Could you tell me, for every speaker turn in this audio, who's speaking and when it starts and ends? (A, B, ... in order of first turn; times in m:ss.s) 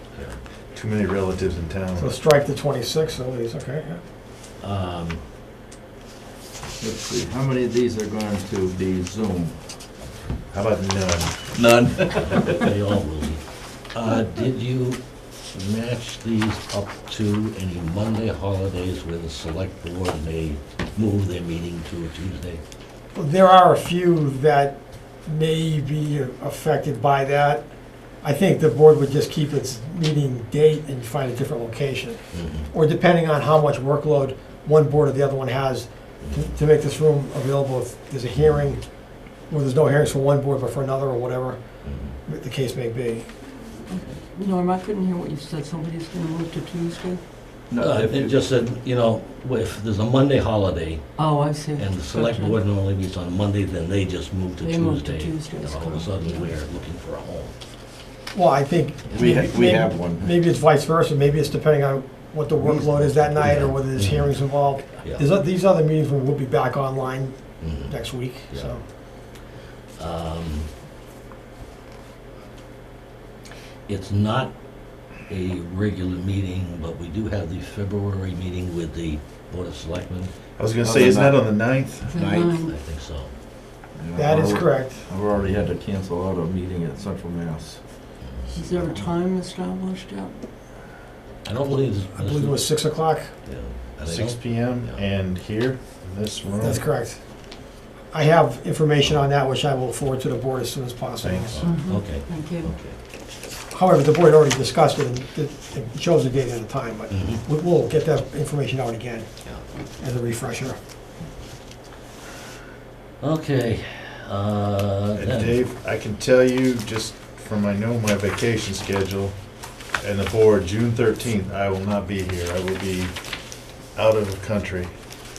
0:00.1-0:00.4 A
0:00.7-0:02.1 B
0:02.0-0:04.0 C
0:04.6-0:05.2 A
0:06.8-0:09.6 D
0:10.5-0:11.5 B
0:11.5-0:12.8 D
0:12.2-0:13.4 A
0:13.9-0:15.0 A
0:15.5-0:22.6 A
0:23.1-0:27.6 C
0:28.2-0:38.8 C
0:32.3-0:32.7 A
0:39.5-0:41.6 C
0:41.8-0:42.1 A
0:42.2-0:43.5 C
0:43.9-0:47.2 E
0:47.7-0:48.4 D
0:47.8-0:57.5 A
0:51.2-0:52.6 E
0:54.6-0:56.5 E
0:58.3-1:08.8 C
0:59.1-1:00.3 D
1:02.6-1:04.4 A
1:04.9-1:05.2 A
1:07.6-1:08.0 A
1:08.5-1:08.8 A
1:10.0-1:10.7 A
1:13.9-1:14.5 A
1:15.1-1:20.3 A
1:20.6-1:22.1 B
1:20.8-1:21.6 D
1:22.1-1:22.7 E
1:22.1-1:22.6 D
1:22.6-1:23.3 A
1:24.0-1:27.8 D
1:24.2-1:25.1 C
1:28.2-1:28.6 A
1:28.5-1:30.3 E
1:31.4-1:32.7 A
1:32.2-1:33.3 C
1:33.4-1:35.0 A
1:34.0-1:36.8 B
1:36.6-1:37.2 C
1:38.1-1:41.6 C
1:41.2-1:41.7 B
1:41.6-1:43.0 A
1:41.6-1:42.7 E
1:43.7-1:49.3 C
1:47.1-1:47.4 A
1:50.0-1:50.8 C
1:53.2-1:55.5 A
1:55.2-1:59.4 B
2:00.0-2:03.2 B
2:03.9-2:05.0 B